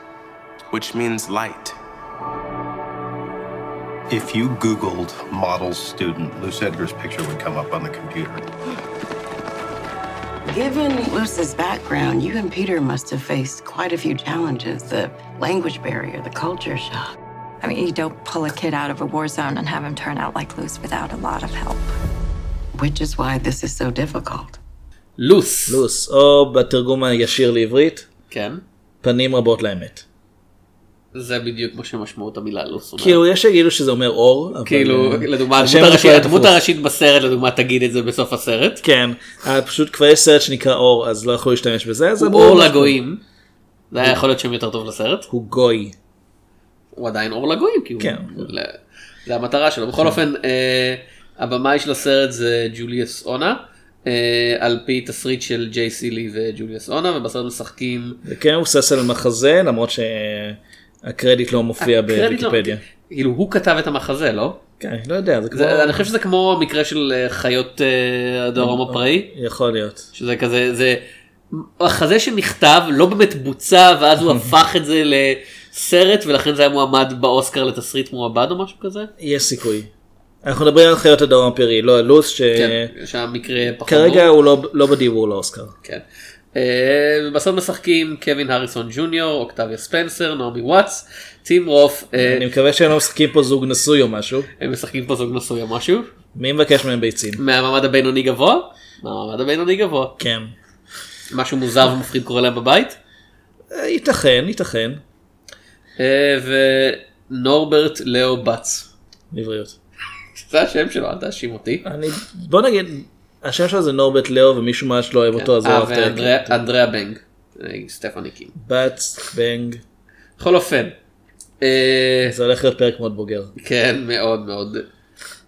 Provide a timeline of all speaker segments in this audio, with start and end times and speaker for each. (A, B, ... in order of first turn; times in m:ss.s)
0:00.7-0:01.8 A
0:04.1-0:08.4 A
0:10.5-0:17.1 B
0:17.6-0:21.9 C
0:22.8-0:24.6 B
0:25.2-0:25.8 D
0:25.7-0:28.1 E
0:28.3-0:28.6 D
0:29.0-0:30.0 E
0:31.1-0:33.2 D
0:33.0-0:36.6 E
0:34.6-0:38.8 D
0:38.8-0:43.0 E
0:42.2-0:43.2 D
0:43.9-0:45.3 D
0:45.3-0:46.0 E
0:47.0-0:58.2 D
0:48.0-0:48.5 E
0:58.2-1:02.8 E
1:01.8-1:04.6 D
1:04.8-1:06.0 E
1:05.5-1:09.3 D
1:08.6-1:10.1 E
1:10.2-1:11.0 D
1:11.5-1:19.1 D
1:14.2-1:14.5 E
1:19.2-1:19.9 E
1:20.4-1:22.9 E
1:22.6-1:24.3 D
1:23.9-1:25.7 E
1:26.6-1:32.5 D
1:32.2-1:34.5 E
1:34.6-1:36.1 D
1:36.4-1:37.4 E
1:37.4-1:40.2 D
1:40.2-1:40.5 E
1:41.3-1:43.0 D
1:43.7-1:45.0 E
1:46.0-1:48.9 D
1:49.3-1:49.8 E
1:50.4-1:51.8 D
1:51.8-1:56.7 E
1:55.4-1:58.5 D
1:58.6-1:59.8 E
2:00.4-2:01.0 D
2:01.6-2:02.4 D
2:02.3-2:03.5 E
2:03.6-2:04.9 D